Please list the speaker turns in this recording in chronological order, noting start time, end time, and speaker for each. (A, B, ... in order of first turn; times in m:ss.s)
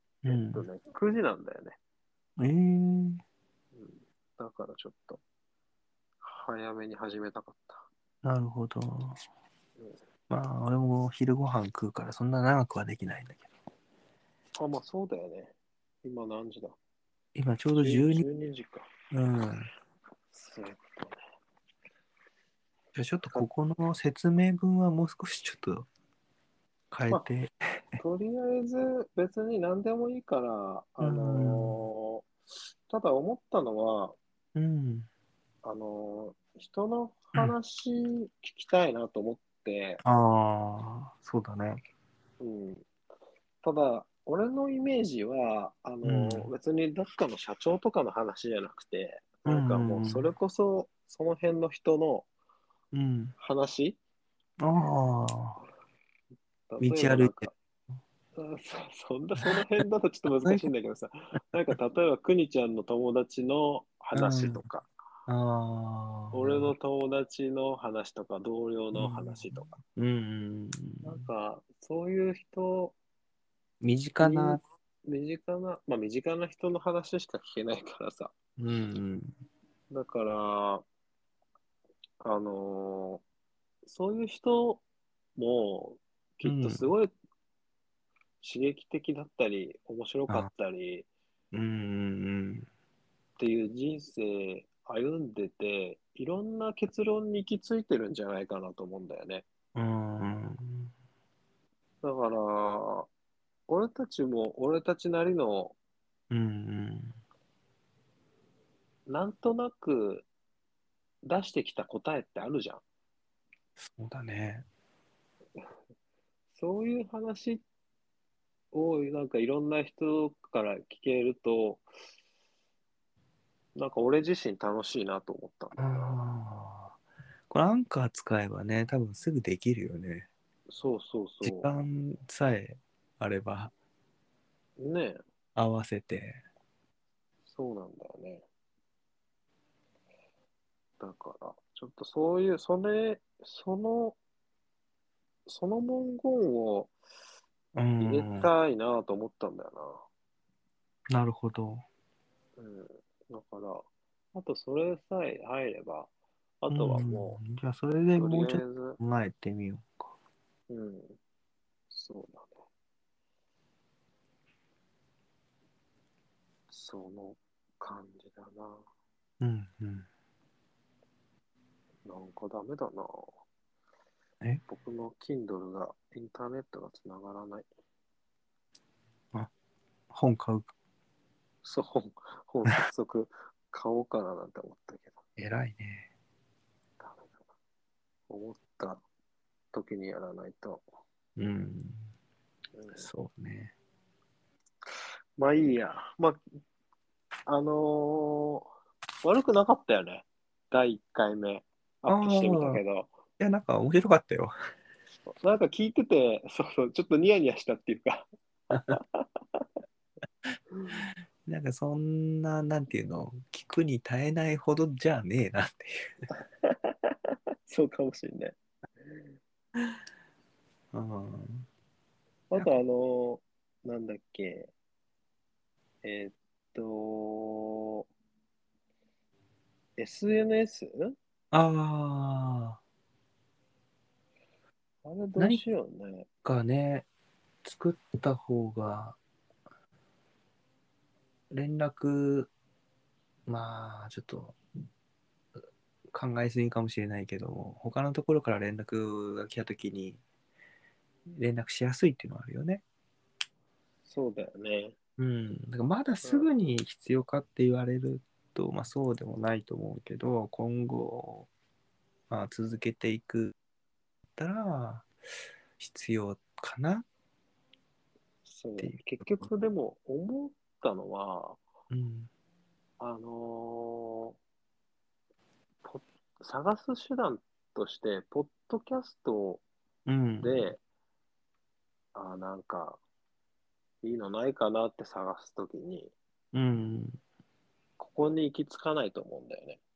0:00.2-0:00.6 A
0:00.3-0:01.8 B
0:02.4-0:03.2 A
0:03.7-0:05.2 B
0:06.2-0:07.9 B
0:08.2-0:09.2 A
0:10.3-0:13.5 A
0:14.6-0:16.8 B
0:17.3-0:18.2 A
0:17.8-0:18.9 B
0:19.1-0:19.7 A
0:20.3-0:21.2 B
0:22.9-0:25.9 A
0:26.9-0:28.0 A
0:28.0-0:32.3 B
0:31.0-0:31.8 A
0:32.9-0:34.2 B
0:34.5-0:35.1 A
0:35.6-0:40.0 B
0:40.0-0:41.8 A
0:42.4-0:42.9 B
0:43.6-0:52.3 B
0:46.0-0:46.5 A
0:49.4-0:50.3 A
0:52.9-0:53.3 A
0:53.4-0:54.0 B
0:54.6-0:55.6 A
0:56.7-0:57.5 B
0:56.8-0:57.5 A
0:58.4-1:04.9 B
1:04.1-1:04.6 A
1:05.3-1:06.7 A
1:06.3-1:09.8 B
1:08.9-1:11.2 A
1:11.0-1:13.0 B
1:13.8-1:14.6 A
1:14.2-1:18.3 B
1:18.6-1:19.3 A
1:19.9-1:20.8 B
1:22.2-1:23.2 B
1:23.8-1:24.8 B
1:25.4-1:27.1 B
1:26.4-1:26.9 A
1:28.4-1:31.1 B
1:31.5-1:32.7 A
1:33.4-1:39.4 B
1:39.7-1:40.9 A
1:42.0-1:43.1 B
1:43.7-1:45.8 B
1:46.3-1:47.1 A
1:49.1-1:50.3 B
1:51.2-1:52.8 B
1:53.8-1:54.6 A
1:56.5-1:57.6 B
1:58.7-2:01.8 B
2:03.8-2:06.2 B
2:05.8-2:07.0 A
2:07.5-2:10.3 A
2:10.7-2:11.7 B
2:11.4-2:13.7 A
2:14.8-2:15.2 B
2:15.6-2:16.4 A
2:17.5-2:18.4 B
2:21.0-2:24.2 B
2:25.5-2:26.9 B
2:27.7-2:28.5 A
2:28.0-2:30.0 B
2:31.1-2:31.8 A
2:32.6-2:36.1 B
2:36.6-2:37.4 B
2:36.7-2:40.1 A
2:38.2-2:39.0 B
2:40.7-2:41.2 B
2:41.9-2:42.6 B
2:46.7-2:48.8 B
2:49.4-2:50.1 A
2:52.0-2:53.4 B
2:54.7-2:57.6 B
3:00.1-3:00.7 A
3:01.6-3:05.2 B
3:05.4-3:06.1 A
3:07.0-3:07.4 B
3:08.3-3:09.0 B
3:09.7-3:10.8 B
3:11.4-3:12.1 A
3:12.8-3:13.1 B
3:13.0-3:13.7 A
3:15.4-3:16.4 B
3:17.5-3:18.7 B
3:19.2-3:23.1 B
3:22.1-3:22.8 A
3:23.4-3:24.5 A
3:25.2-3:29.6 B
3:30.7-3:31.0 B
3:31.4-3:36.2 A
3:36.3-3:38.6 B
3:40.9-3:41.7 A
3:42.5-3:44.7 B
3:46.0-3:48.0 B
3:50.0-3:51.1 B
3:51.5-3:52.8 A
3:55.0-3:56.3 B
3:55.4-3:55.6 A
3:56.4-3:57.0 A
3:57.6-3:59.2 A
4:01.5-4:02.5 A
4:03.5-4:04.6 A
4:06.1-4:10.2 A
4:11.3-4:12.8 A
4:14.0-4:14.9 B
4:15.2-4:21.5 A
4:16.2-4:16.5 B
4:22.3-4:23.5 A
4:24.4-4:25.1 A
4:25.8-4:27.0 A
4:28.4-4:31.6 B
4:28.8-4:29.5 A
4:31.9-4:32.3 A
4:33.0-4:34.4 B
4:35.8-4:39.6 B
4:40.1-4:40.7 A
4:40.4-4:40.8 B
4:42.1-4:43.0 B
4:44.0-4:46.1 B
4:46.5-4:47.2 A
4:48.0-4:49.8 B